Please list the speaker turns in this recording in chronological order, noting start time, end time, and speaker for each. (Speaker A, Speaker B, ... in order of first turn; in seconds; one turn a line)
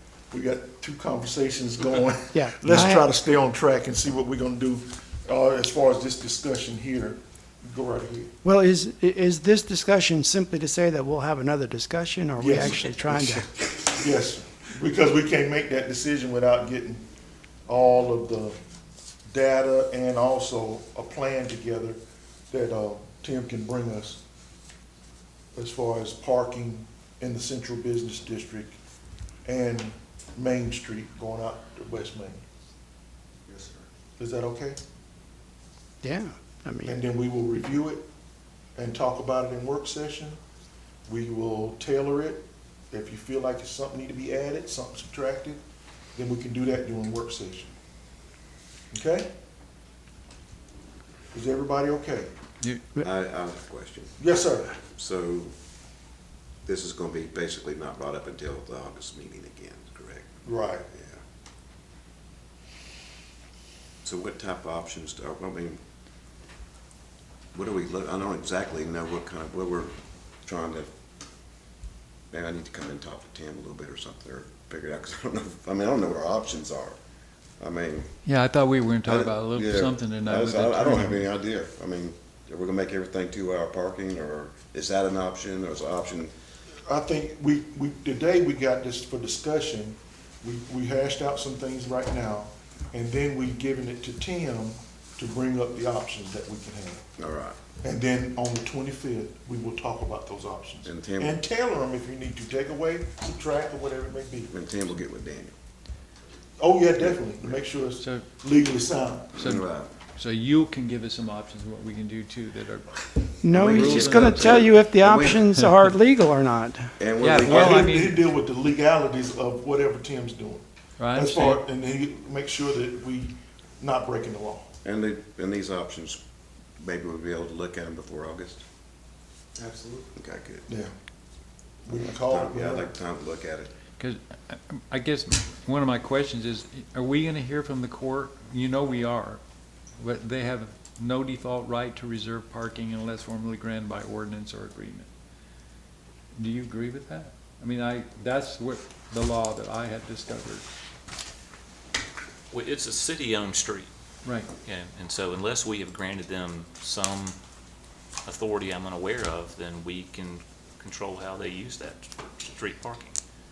Speaker A: 0.3-8.3
Speaker B: 2.3-3.1
Speaker B: 8.4-13.6
Speaker A: 12.4-17.0
Speaker A: 17.7-18.6
Speaker A: 19.3-22.0
Speaker A: 22.5-24.2
Speaker A: 25.5-28.8
Speaker A: 29.4-32.4
Speaker C: 33.5-33.8
Speaker A: 34.2-34.8
Speaker B: 36.0-37.0
Speaker A: 36.9-38.1
Speaker A: 38.7-40.4
Speaker A: 41.1-45.6
Speaker A: 46.1-47.7
Speaker A: 48.9-49.3
Speaker A: 51.3-52.3
Speaker C: 53.0-54.2
Speaker A: 54.2-54.8
Speaker C: 54.8-55.5
Speaker C: 56.6-61.2
Speaker A: 60.4-60.9
Speaker C: 64.0-65.8
Speaker C: 67.5-69.9
Speaker C: 70.4-70.9
Speaker C: 72.3-77.0
Speaker C: 77.6-78.1
Speaker D: 78.2-81.2
Speaker C: 79.0-86.3
Speaker A: 86.8-97.0
Speaker C: 97.2-97.6
Speaker A: 97.8-104.5
Speaker C: 100.8-101.4
Speaker C: 104.5-105.5
Speaker A: 106.6-109.3
Speaker C: 107.0-107.5
Speaker D: 108.0-108.2
Speaker C: 109.3-109.9
Speaker D: 109.3-114.7
Speaker B: 113.4-117.0
Speaker C: 113.5-115.7
Speaker C: 117.0-117.9
Speaker D: 117.2-118.3
Speaker A: 117.3-124.7
Speaker D: 121.0-121.6
Speaker C: 124.8-126.2
Speaker C: 126.8-128.6
Speaker D: 129.6-130.0
Speaker C: 130.2-130.7
Speaker A: 131.8-132.9
Speaker C: 132.1-133.7
Speaker D: 134.0-139.4
Speaker D: 140.0-145.1
Speaker D: 146.3-150.6
Speaker E: 152.5-153.9
Speaker D: 154.2-154.5
Speaker E: 154.6-157.4
Speaker E: 158.2-163.2